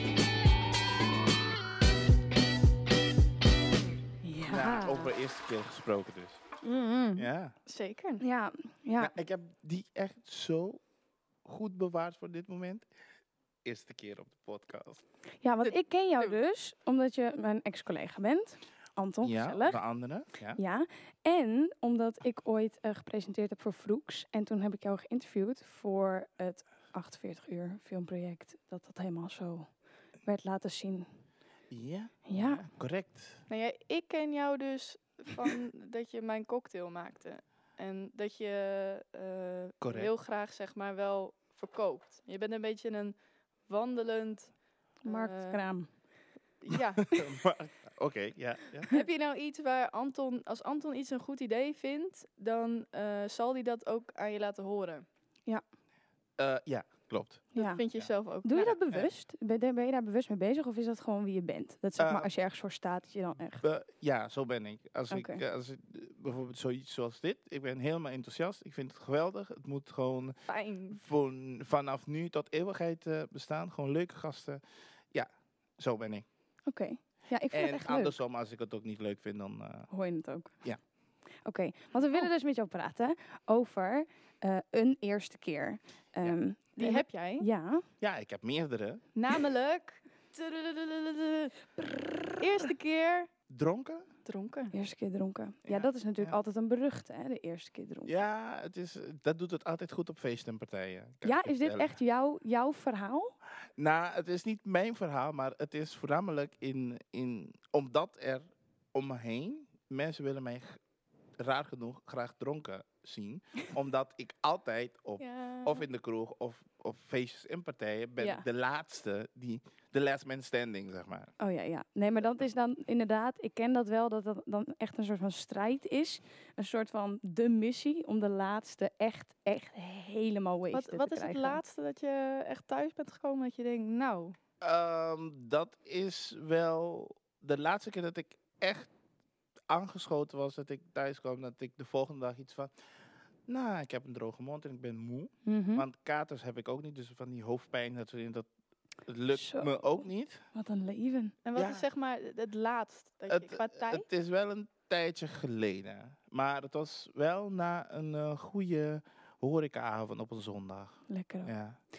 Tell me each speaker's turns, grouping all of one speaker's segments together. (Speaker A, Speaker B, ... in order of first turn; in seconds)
Speaker A: 4.2-5.1, 8.2-9.1, 15.4-19.8, 20.6-29.7, 30.2-31.1, 32.3-32.6, 45.0-45.9, 57.5-57.8, 58.4-63.6, 65.1-65.4, 76.7-78.2, 79.9-80.6, 81.5-87.8, 91.8-92.4, 94.7-98.2, 101.2-103.3, 118.2-118.5, 121.4-131.6, 145.5-145.9, 149.3-150.0, 150.6-151.4, 161.1-161.5
Speaker B: 4.5-6.4, 7.2-7.5, 9.0-10.8, 11.4-12.9, 13.7-15.0, 19.2-20.6, 31.7-33.4, 39.8-40.1, 46.7-49.0, 56.4-58.1, 62.0-62.3, 63.6-70.4, 70.9-74.6, 75.8-76.3, 77.5-79.9, 88.0-89.0, 93.5-94.1, 95.6-96.4, 98.1-102.0, 103.8-110.8, 111.4-121.3, 134.6-138.9, 139.7-142.7, 143.5-148.5, 149.1-150.4, 151.6-151.9, 153.3-161.8
Speaker C: 6.7-7.1, 7.7-8.2, 15.6-16.4, 33.5-44.5, 45.1-45.6, 46.6-47.1, 48.9-55.1, 57.6-58.8, 70.5-71.0, 86.8-87.5, 89.2-91.5, 92.4-93.3, 94.2-94.7, 115.2-115.8, 130.7-134.4, 151.4-154.1